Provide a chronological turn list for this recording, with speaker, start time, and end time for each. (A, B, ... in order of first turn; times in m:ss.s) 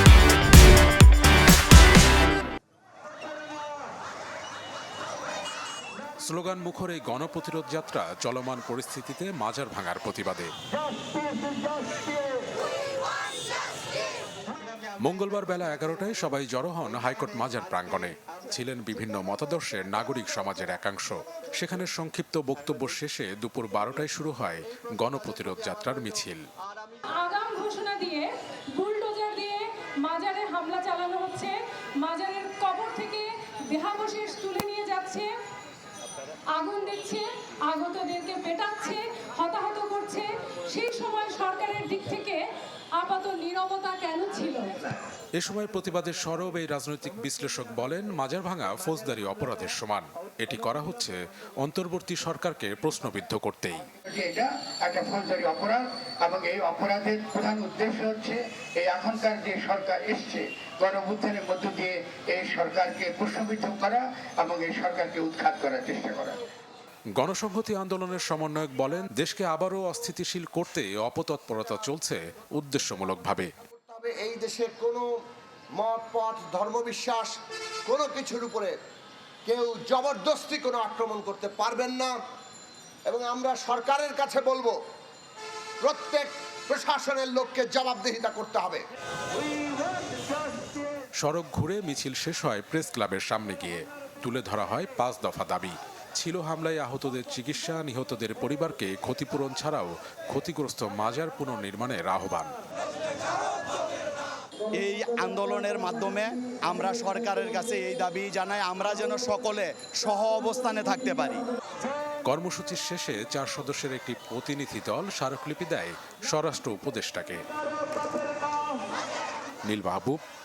0:06.2-0:10.5 A
0:15.0-0:26.4 A
0:27.1-0:35.3 B
0:36.5-0:45.0 B
0:45.4-0:53.9 A
0:54.1-1:06.4 C
1:07.2-1:13.5 A
1:13.7-1:15.0 D
1:15.8-1:18.7 D
1:19.5-1:22.2 D
1:23.1-1:24.8 D
1:25.8-1:28.8 D
1:31.2-1:42.5 A
1:44.8-1:51.4 E
1:52.2-1:57.4 A
1:59.6-2:00.2 A